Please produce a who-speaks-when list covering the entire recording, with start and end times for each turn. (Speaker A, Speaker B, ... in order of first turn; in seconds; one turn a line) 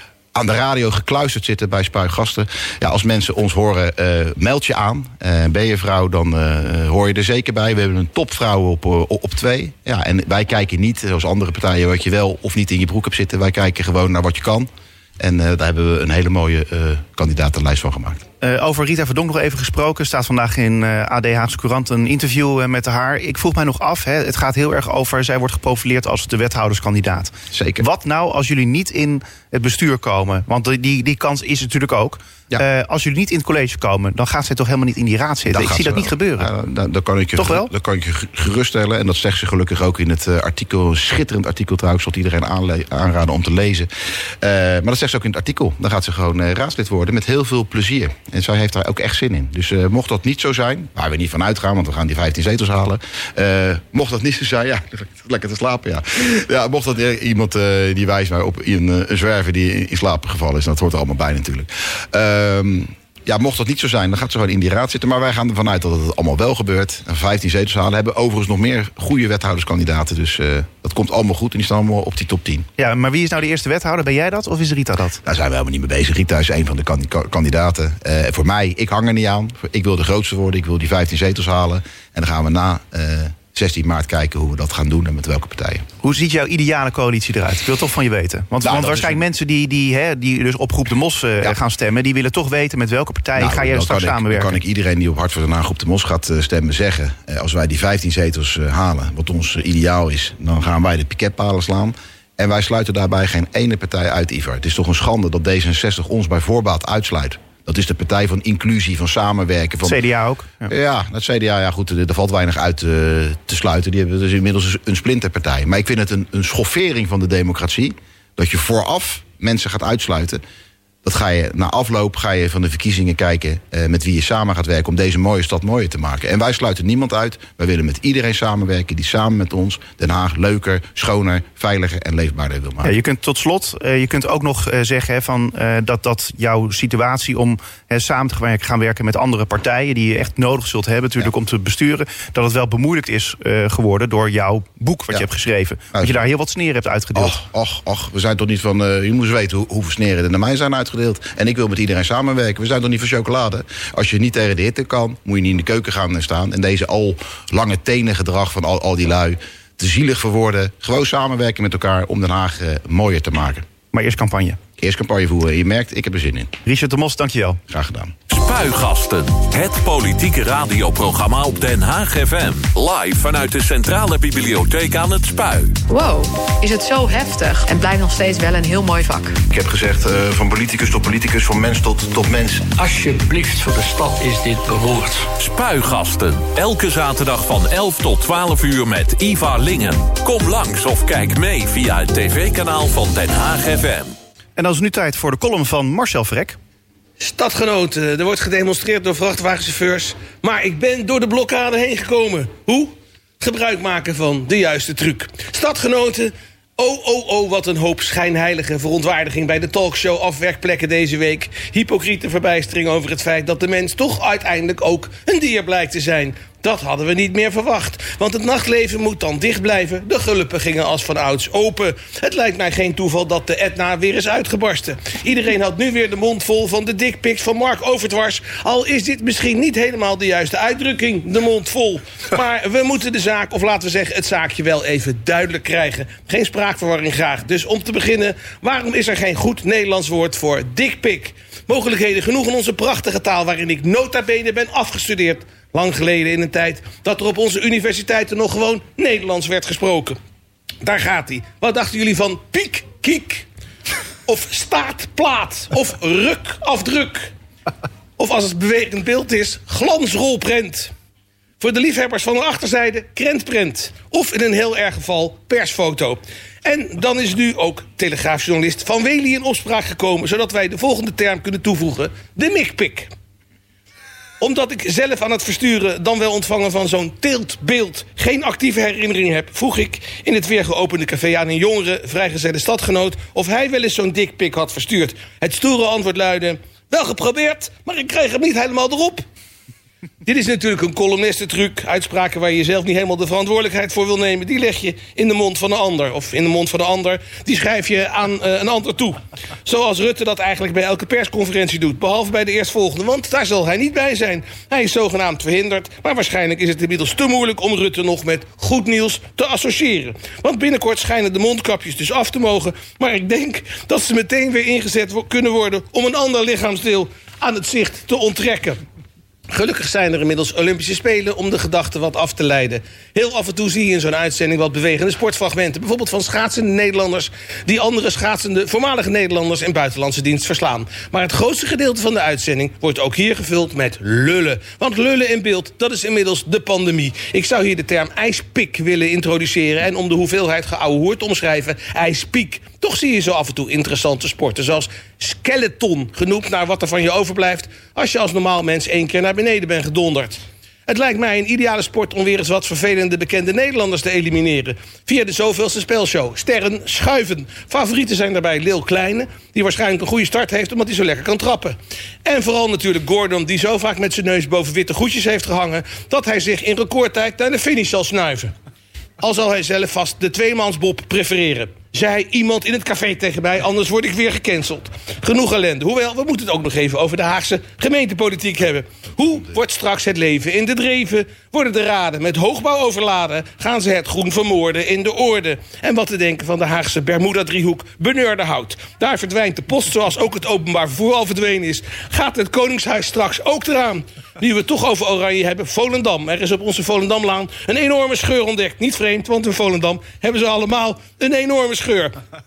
Speaker A: 0.3-18.2
Speaker B: 18.4-36.5
Speaker A: 27.5-27.8
Speaker A: 35.5-72.7
Speaker B: 37.4-37.7
Speaker B: 72.8-75.2
Speaker A: 75.2-85.8
Speaker B: 86.0-94.6
Speaker A: 88.6-89.2
Speaker A: 93.4-110.0
Speaker B: 109.8-110.7
Speaker A: 110.7-120.4
Speaker A: 121.0-132.9
Speaker B: 132.8-147.4
Speaker A: 147.2-163.7
Speaker B: 163.9-164.6
Speaker A: 164.8-166.6
Speaker B: 166.7-167.6
Speaker A: 167.7-168.2
Speaker C: 168.3-175.8
Speaker D: 175.9-179.4
Speaker A: 179.5-182.7
Speaker E: 182.7-185.3
Speaker C: 185.4-194.1
Speaker B: 194.6-196.6
Speaker F: 197.2-250.2
Speaker F: 250.8-253.5
Speaker F: 254.3-257.3
Speaker F: 258.2-260.9
Speaker F: 261.6-273.1
Speaker F: 274.4-289.2
Speaker F: 290.2-318.8
Speaker F: 319.5-368.5
Speaker F: 369.2-402.2